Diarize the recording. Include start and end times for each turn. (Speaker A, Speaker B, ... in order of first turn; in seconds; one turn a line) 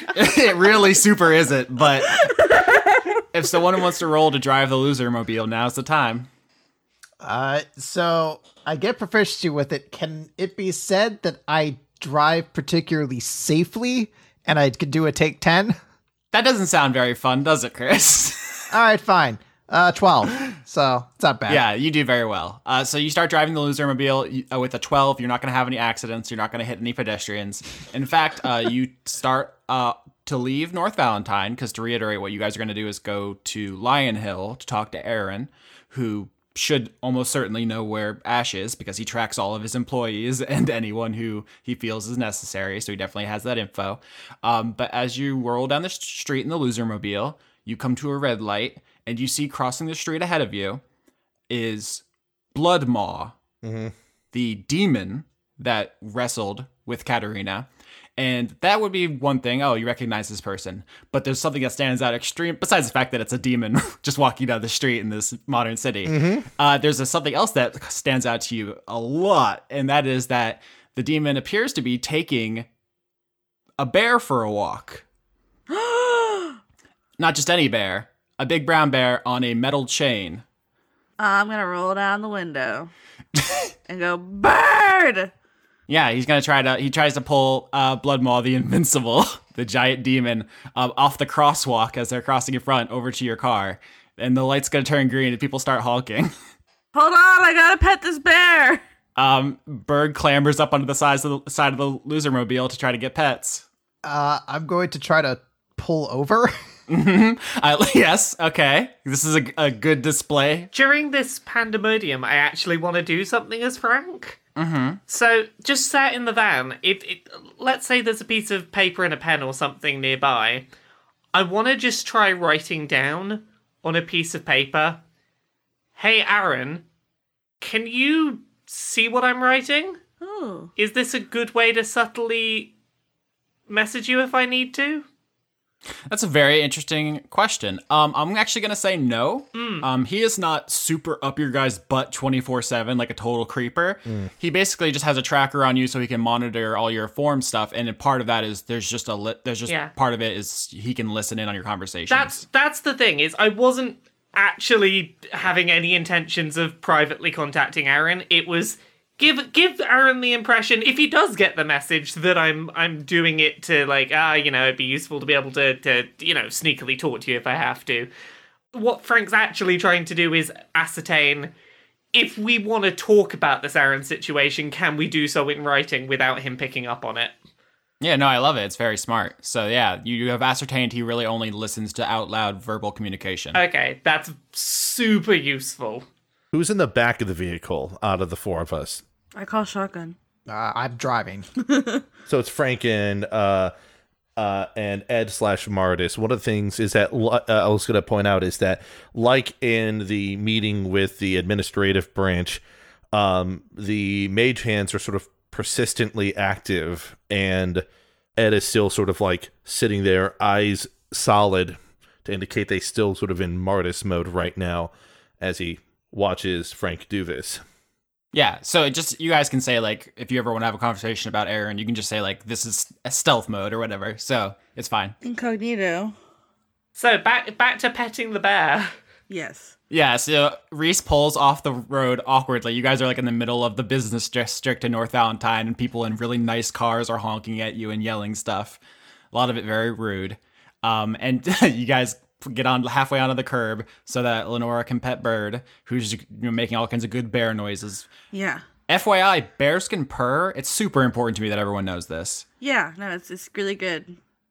Speaker A: 0.1-2.2
Speaker B: 2.2-3.2
Speaker A: 3.3-6.3
Speaker C: 7.2-15.8
Speaker A: 16.3-18.7
Speaker C: 18.7-21.6
Speaker A: 21.5-50.8
Speaker A: 51.5-52.0
Speaker A: 52.5-53.4
Speaker D: 53.6-53.9
Speaker A: 54.3-72.7
Speaker D: 66.0-66.5
Speaker A: 73.8-75.0
Speaker B: 75.7-76.6
Speaker A: 77.2-80.4
Speaker B: 81.2-82.9
Speaker A: 83.3-83.7
Speaker B: 83.9-85.3
Speaker A: 85.9-96.3
Speaker B: 96.9-98.8
Speaker A: 99.2-103.6
Speaker C: 104.0-106.5
Speaker A: 106.9-110.7
Speaker E: 110.7-114.4
Speaker A: 114.5-115.0
Speaker E: 115.1-120.7
Speaker E: 121.3-125.0
Speaker E: 126.0-126.8
Speaker E: 127.6-130.0
Speaker B: 130.2-130.7
Speaker E: 130.8-132.7
Speaker E: 133.7-135.1
Speaker A: 136.1-152.4
Speaker E: 139.5-139.8
Speaker E: 149.7-149.9
Speaker E: 152.1-168.1
Speaker E: 168.7-171.5
Speaker E: 172.1-177.3
Speaker A: 178.0-183.6
Speaker E: 183.5-186.1
Speaker D: 186.5-189.0
Speaker B: 189.3-190.2
Speaker C: 190.5-191.5
Speaker B: 191.7-192.0
Speaker D: 192.2-193.7
Speaker D: 194.4-202.6
Speaker D: 203.1-207.8
Speaker D: 208.3-217.6
Speaker A: 218.3-225.2
Speaker B: 225.2-226.1
Speaker E: 226.9-228.9
Speaker B: 229.3-229.7
Speaker A: 229.9-238.8
Speaker A: 239.3-248.1
Speaker B: 248.3-248.6
Speaker A: 248.9-252.4
Speaker B: 252.6-254.2